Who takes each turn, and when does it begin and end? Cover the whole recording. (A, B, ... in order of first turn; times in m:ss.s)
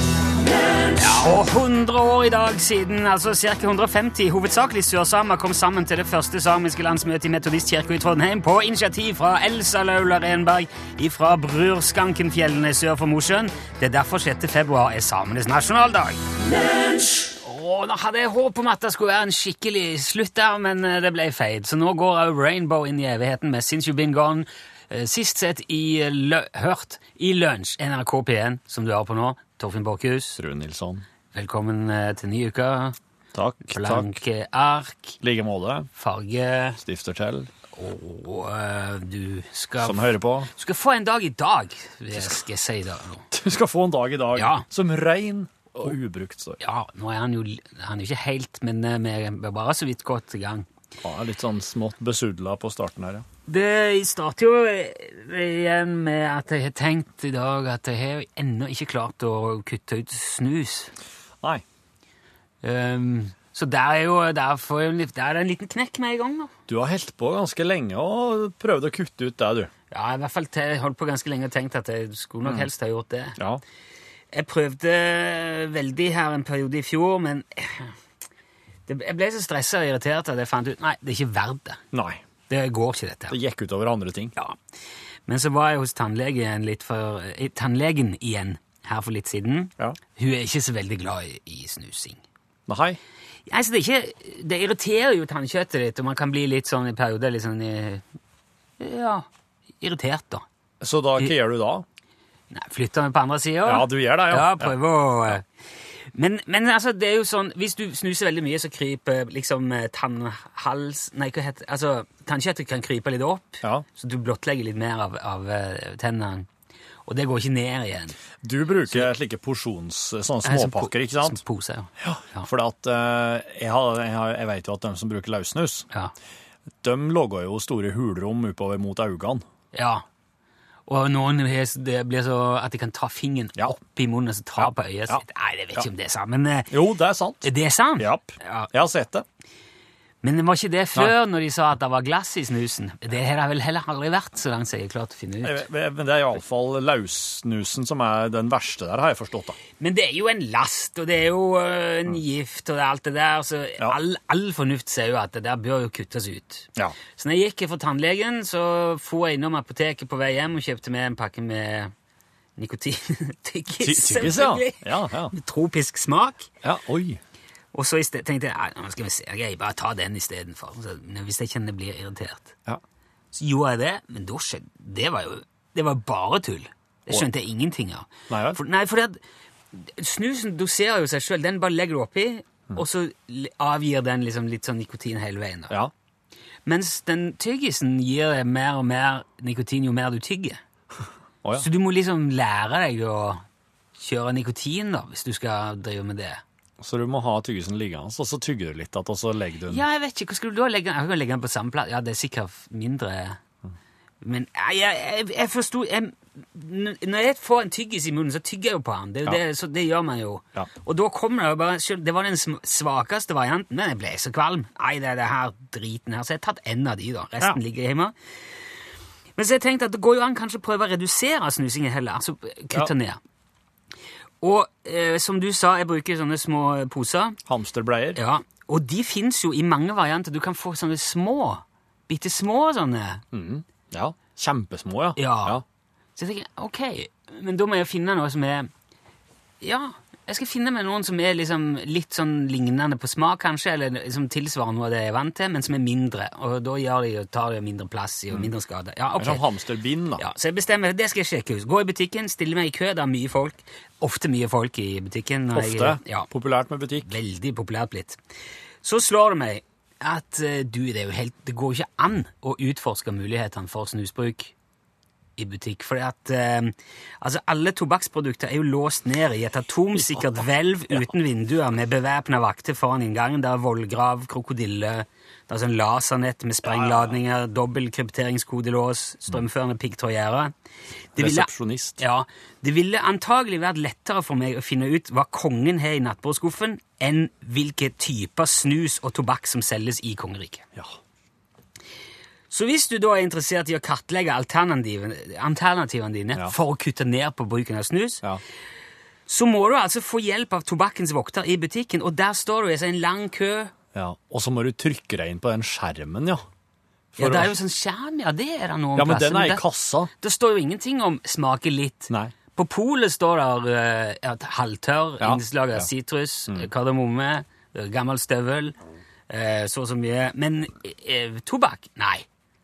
0:00.8-0:16.4 A
0:17.1-0:30.4 A
0:30.4-0:31.0 B
0:31.3-0:33.0 A
0:33.3-0:34.1 B
0:33.7-0:35.2 A
0:35.2-0:35.9 B
0:36.0-0:36.8 A
0:36.8-0:37.5 B
0:37.7-0:43.3 A
0:39.8-0:40.5 B
0:43.3-0:46.6 B
0:44.4-0:44.6 A
0:46.6-0:50.7 A
0:51.0-0:53.3 B
0:53.5-1:00.9 A
1:02.6-1:06.5 A
1:06.7-1:09.7 B
1:09.9-1:13.4 A
1:12.4-1:12.7 B
1:13.4-1:13.6 B
1:14.3-1:18.0 A
1:18.9-1:21.8 A
1:21.9-1:22.2 B
1:22.5-1:23.4 A
1:23.3-1:24.3 B
1:25.3-1:32.2 A
1:32.7-1:33.0 B
1:33.5-1:38.0 A
1:38.8-1:39.3 A
1:39.8-1:40.4 A
1:40.8-1:41.8 B
1:42.5-1:45.5 A
1:43.6-1:44.8 B
1:46.1-1:56.5 A
1:57.1-1:58.2 A
1:58.4-2:01.4 B
2:00.4-2:02.5 A
2:02.0-2:05.9 B
2:06.8-2:09.4 B
2:09.7-2:10.0 A
2:10.9-2:16.7 A
2:14.6-2:15.2 B
2:16.7-2:19.2 B
2:17.4-2:18.7 A
2:20.2-2:25.6 A
2:25.4-2:29.6 B
2:29.8-2:41.9 A
2:42.6-2:46.5 A
2:43.8-2:45.3 B
2:46.6-2:47.2 B
2:47.7-2:52.5 A
2:53.3-2:59.2 A
2:58.3-2:58.6 B
2:59.7-3:05.8 A
3:06.7-3:10.6 A
3:11.6-3:13.4 A
3:14.0-3:16.4 A
3:16.8-3:19.8 B
3:19.7-3:23.4 A
3:24.2-3:38.2 A
3:39.4-3:43.2 A
3:44.4-3:47.4 A
3:47.5-3:48.2 B
3:48.2-3:53.2 A
3:53.3-3:55.6 B
3:55.2-3:55.6 A
3:56.2-3:58.7 A
3:59.6-4:09.4 A
4:09.2-4:10.2 B
4:10.2-4:16.3 A
4:15.5-4:17.1 B
4:17.0-4:18.2 A
4:18.8-4:24.5 A
4:25.4-4:40.5 A
4:30.0-4:30.4 B
4:36.6-4:37.2 B
4:41.2-4:42.0 B
4:41.2-4:50.7 A
4:52.5-4:58.2 A
4:59.3-5:03.7 A
5:03.9-5:06.5 B
5:07.1-5:07.5 B
5:07.2-5:09.6 A
5:09.0-5:10.1 B
5:10.2-5:18.8 A
5:15.2-5:15.9 B
5:19.3-5:22.3 A